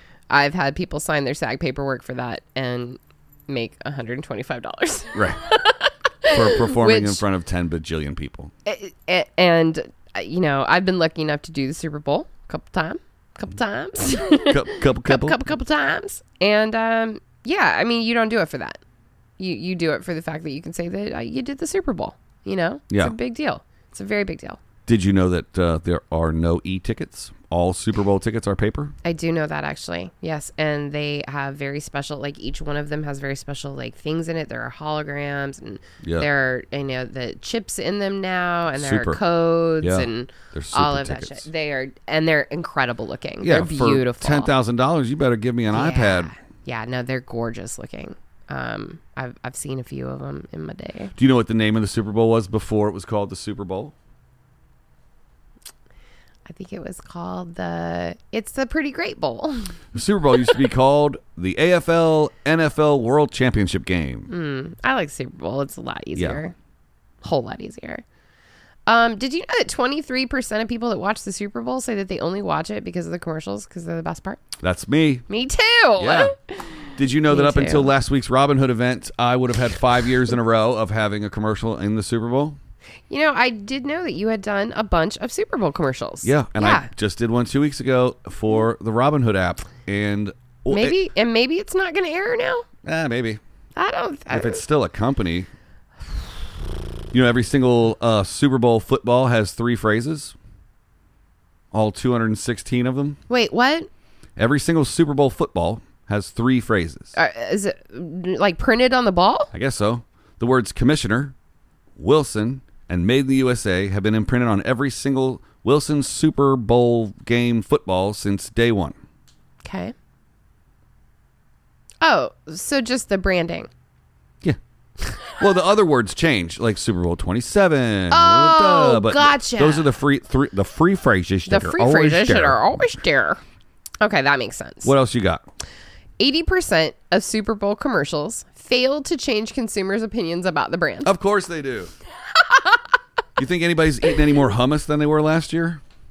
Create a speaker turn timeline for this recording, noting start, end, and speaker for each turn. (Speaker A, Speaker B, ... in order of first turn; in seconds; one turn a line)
Speaker A: 0.3-7.2
Speaker B: 5.1-5.4
Speaker B: 6.3-8.5
Speaker A: 8.6-18.8
Speaker B: 14.4-15.4
Speaker A: 19.4-24.6
Speaker B: 24.9-28.9
Speaker A: 29.0-44.5
Speaker B: 36.0-36.3
Speaker B: 38.7-39.2
Speaker B: 39.8-41.5
Speaker B: 43.4-46.3
Speaker A: 45.7-51.1
Speaker B: 51.1-53.9
Speaker A: 56.5-59.8
Speaker B: 59.9-64.3
Speaker A: 64.3-66.5
Speaker B: 66.2-66.4
Speaker A: 67.2-68.0
Speaker A: 68.9-74.4
Speaker B: 74.6-75.2
Speaker A: 75.3-77.9
Speaker B: 76.0-76.3
Speaker B: 77.0-82.6
Speaker A: 83.1-86.9
Speaker B: 86.2-91.0
Speaker A: 90.7-92.7
Speaker B: 92.8-93.4
Speaker A: 93.8-94.6
Speaker B: 94.3-95.5
Speaker B: 97.1-100.3
Speaker B: 101.7-103.2
Speaker A: 103.3-103.9
Speaker B: 104.4-107.1
Speaker A: 107.1-109.5
Speaker B: 109.5-111.3
Speaker B: 112.0-119.0
Speaker A: 119.6-119.9
Speaker A: 122.0-123.7
Speaker B: 125.3-132.8
Speaker A: 128.1-129.9
Speaker A: 131.5-133.4
Speaker A: 134.0-134.9
Speaker B: 134.8-135.4
Speaker A: 136.2-141.1
Speaker B: 141.0-141.9
Speaker A: 142.5-142.8
Speaker B: 143.4-145.8